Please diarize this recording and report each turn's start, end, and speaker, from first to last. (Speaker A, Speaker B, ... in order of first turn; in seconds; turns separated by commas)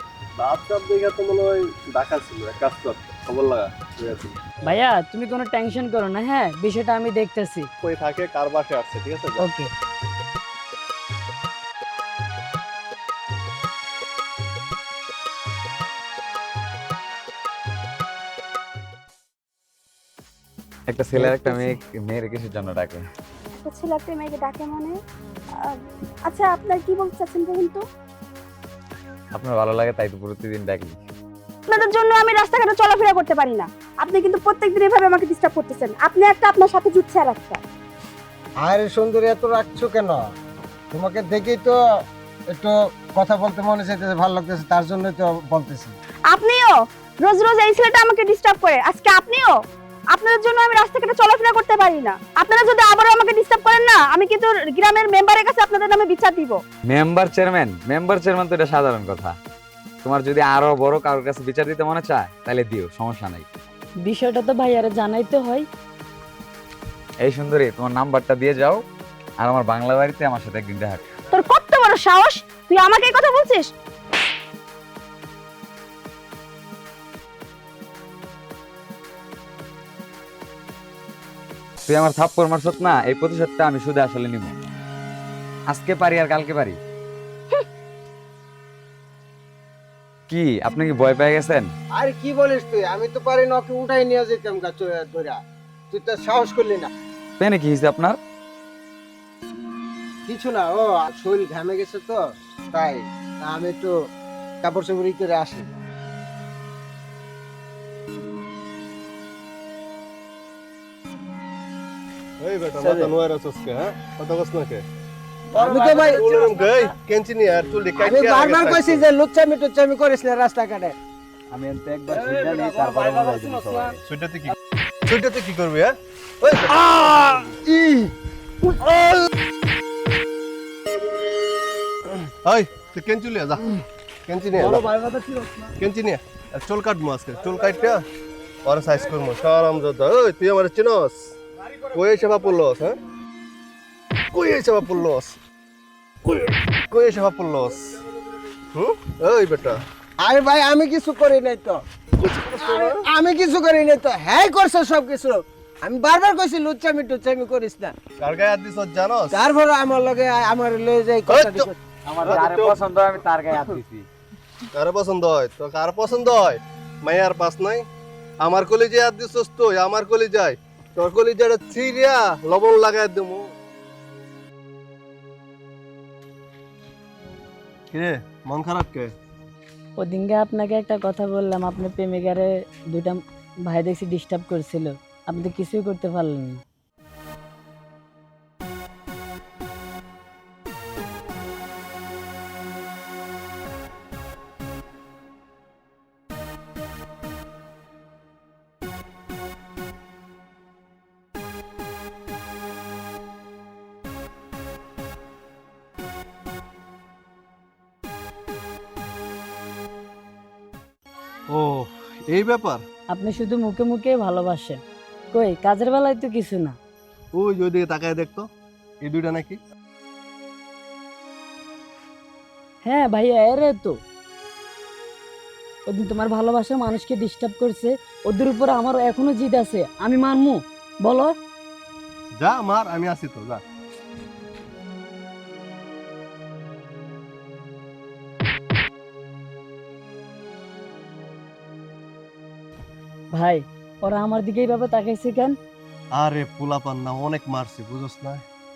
Speaker A: 0.4-4.4, Speaker B: 4.7-7.7, Speaker A: 7.8-9.5, Speaker B: 9.4-9.7, Speaker C: 20.9-23.0, Speaker D: 23.5-25.0, Speaker D: 25.5-27.9, Speaker C: 29.3-31.0, Speaker D: 31.7-37.6, Speaker E: 38.6-40.2, Speaker E: 40.9-41.8, Speaker E: 42.5-46.0, Speaker D: 46.3-56.6, Speaker C: 56.9-59.4, Speaker C: 60.0-63.5, Speaker B: 64.0-65.7, Speaker C: 67.2-68.8, Speaker C: 69.4-71.1, Speaker D: 71.3-73.7, Speaker C: 81.9-84.6, Speaker C: 85.7-86.8, Speaker C: 90.3-91.7, Speaker E: 91.9-95.4, Speaker E: 95.9-96.9, Speaker C: 97.4-98.2, Speaker E: 100.3-103.9, Speaker E: 104.6-105.7, Speaker A: 112.4-114.8, Speaker E: 112.8-113.1, Speaker E: 115.5-116.3, Speaker A: 115.6-119.1, Speaker E: 118.0-121.0, Speaker C: 121.5-124.0, Speaker A: 124.0-124.5, Speaker A: 125.1-126.8, Speaker C: 126.9-127.5, Speaker E: 127.6-128.1, Speaker E: 128.8-129.1, Speaker A: 132.4-134.9, Speaker A: 135.8-138.0, Speaker A: 138.6-141.3, Speaker A: 141.9-143.0, Speaker A: 144.3-145.4, Speaker A: 146.3-148.0, Speaker A: 148.7-149.8, Speaker E: 150.2-157.9, Speaker A: 152.2-153.0, Speaker A: 158.2-159.4, Speaker E: 159.3-161.8, Speaker A: 161.3-161.7, Speaker C: 162.1-164.1, Speaker A: 162.2-162.8, Speaker A: 164.7-167.8, Speaker A: 168.4-173.4, Speaker A: 177.9-179.1, Speaker B: 180.0-186.6, Speaker A: 211.5-212.8, Speaker B: 213.1-214.8, Speaker B: 215.3-216.8, Speaker A: 217.3-218.5, Speaker A: 219.0-219.6, Speaker B: 222.8-224.0, Speaker B: 225.9-231.3, Speaker A: 232.4-233.6, Speaker B: 243.3-245.6, Speaker A: 246.2-248.4